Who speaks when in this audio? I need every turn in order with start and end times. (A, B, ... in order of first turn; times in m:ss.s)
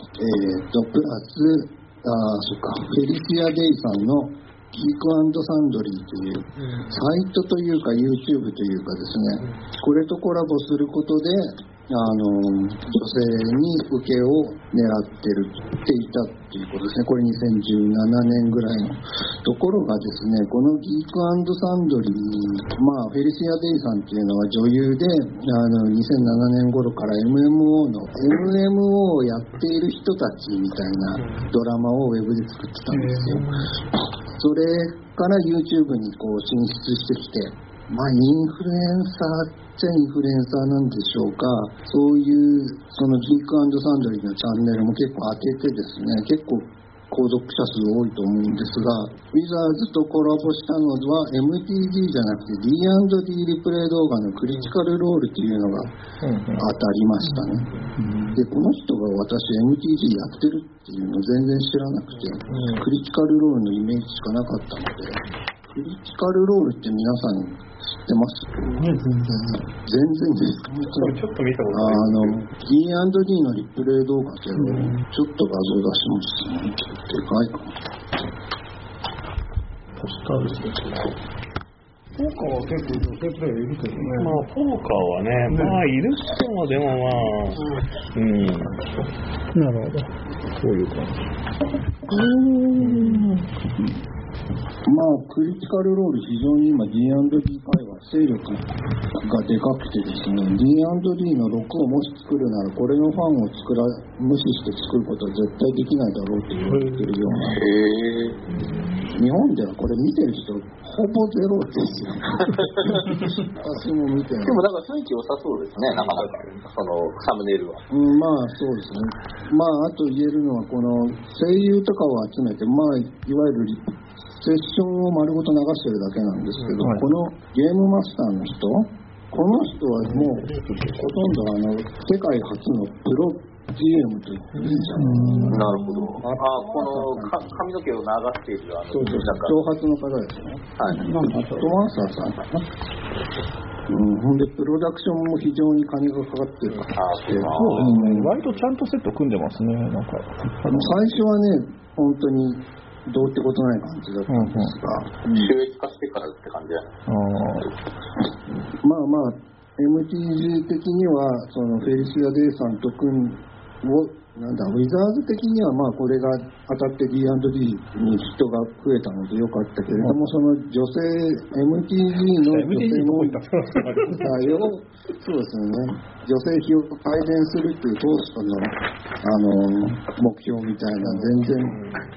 0:00.1-0:33.5 A
0:06.6-0:06.9 B
0:32.9-0:33.6 C
0:34.4-0:55.9 A
0:56.2-0:56.6 D
0:56.6-0:57.7 A
0:58.3-1:05.2 A
1:02.1-1:02.4 B
1:02.5-1:02.8 D
1:05.7-1:08.6 A
1:09.8-1:17.7 A
1:10.9-1:12.4 B
1:14.6-1:15.0 C
1:20.0-1:20.7 D
1:22.2-1:24.5 C
1:24.2-1:27.6 B
1:28.2-1:28.7 B
1:29.5-1:30.0 C
1:30.6-1:31.2 D
1:32.1-1:33.4 D
1:34.9-1:38.6 A
1:39.2-1:47.6 A
1:47.5-1:48.4 E
1:49.1-1:54.6 A
1:54.4-1:57.8 E
1:55.9-1:56.6 B
1:57.9-2:15.6 A
2:06.8-2:07.1 D
2:10.2-2:11.1 D
2:15.0-2:15.6 C
2:15.5-2:19.6 E
2:16.2-2:17.6 A
2:19.0-2:20.6 A
2:20.8-2:21.1 E
2:21.0-2:21.8 C
2:21.2-2:22.6 A
2:23.9-2:28.3 A
2:27.0-2:28.0 E
2:27.4-2:31.0 D
2:30.7-2:35.4 A
2:34.3-2:34.7 D
2:35.3-2:36.9 E
2:37.1-2:37.7 D
2:38.8-2:53.4 A
2:50.0-2:50.2 D
2:52.4-2:54.4 D
2:54.1-3:01.8 A
3:01.4-3:02.0 B